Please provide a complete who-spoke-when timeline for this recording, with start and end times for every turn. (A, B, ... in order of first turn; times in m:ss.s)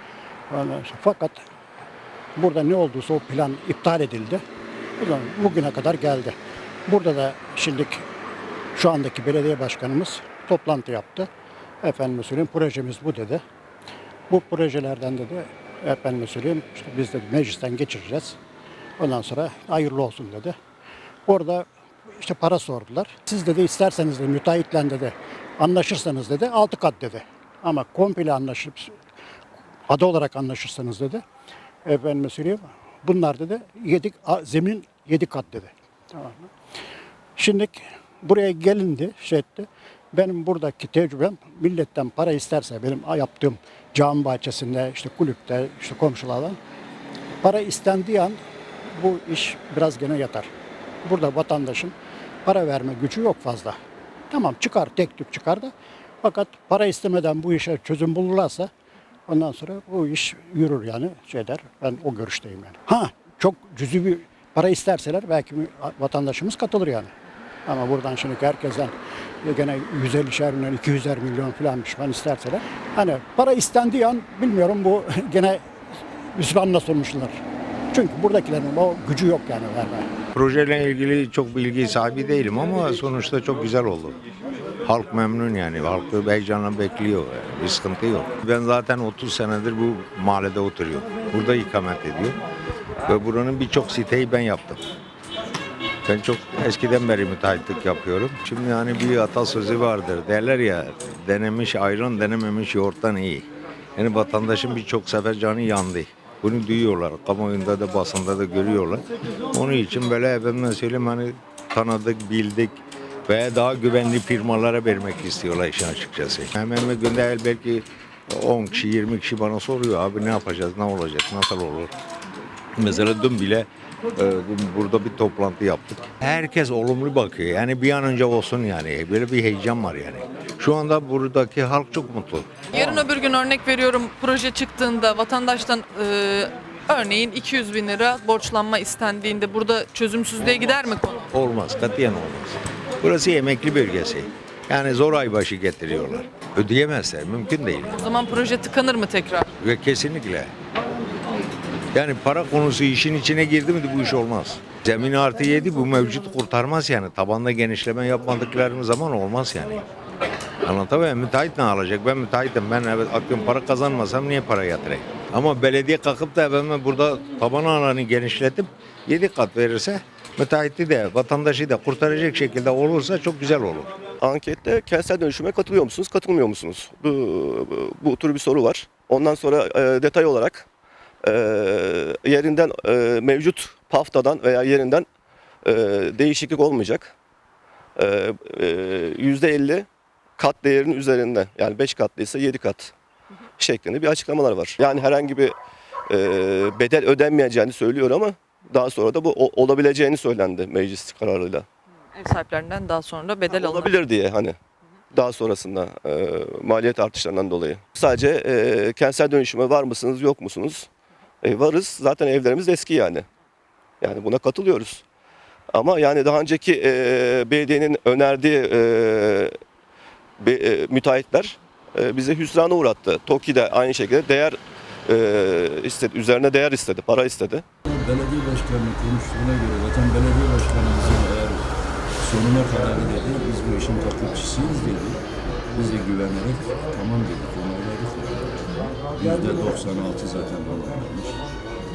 0:00.5-0:01.4 A
0:02.4-0:04.4 A
0:05.0-0:08.0 A
0:08.7-0:11.3 A
0:11.8-0:13.4 A
0:14.3-0:18.4 A
0:19.0-0:20.6 A
0:21.2-0:21.6 A
0:22.2-0:28.9 A
0:29.9-0:31.2 A
0:31.8-0:36.5 A
0:37.4-0:46.6 A
0:47.4-0:50.5 A
0:51.0-0:51.9 A
0:52.4-0:53.8 A
0:54.3-0:55.7 A
0:56.2-0:58.7 A
0:59.3-1:07.1 A
1:07.6-1:15.6 A
1:16.3-1:17.4 A
1:17.9-1:20.1 A
1:20.3-1:24.2 B
1:24.8-1:32.4 B
1:33.0-1:34.8 B
1:36.0-2:01.9 B
2:02.8-2:12.8 B
2:12.7-2:21.3 C
2:21.3-2:28.0 B
2:28.0-2:29.5 C
2:29.6-2:30.5 B
2:31.9-2:39.8 B
2:40.6-2:53.9 B
2:54.2-3:00.6 D
3:01.2-3:05.0 D
3:05.6-3:07.1 D
3:08.0-3:09.9 D
3:10.4-3:12.9 D
3:13.6-3:15.5 D
3:16.1-3:21.6 D
3:22.1-3:24.0 C
3:23.5-3:24.6 D
3:25.1-3:30.9 D
3:31.4-3:33.2 D
3:34.0-3:35.0 D
3:35.7-3:39.5 D
3:40.4-3:47.6 D
3:47.8-3:51.6 E
3:52.2-3:55.2 E
3:55.7-3:58.6 E
3:59.1-4:01.4 E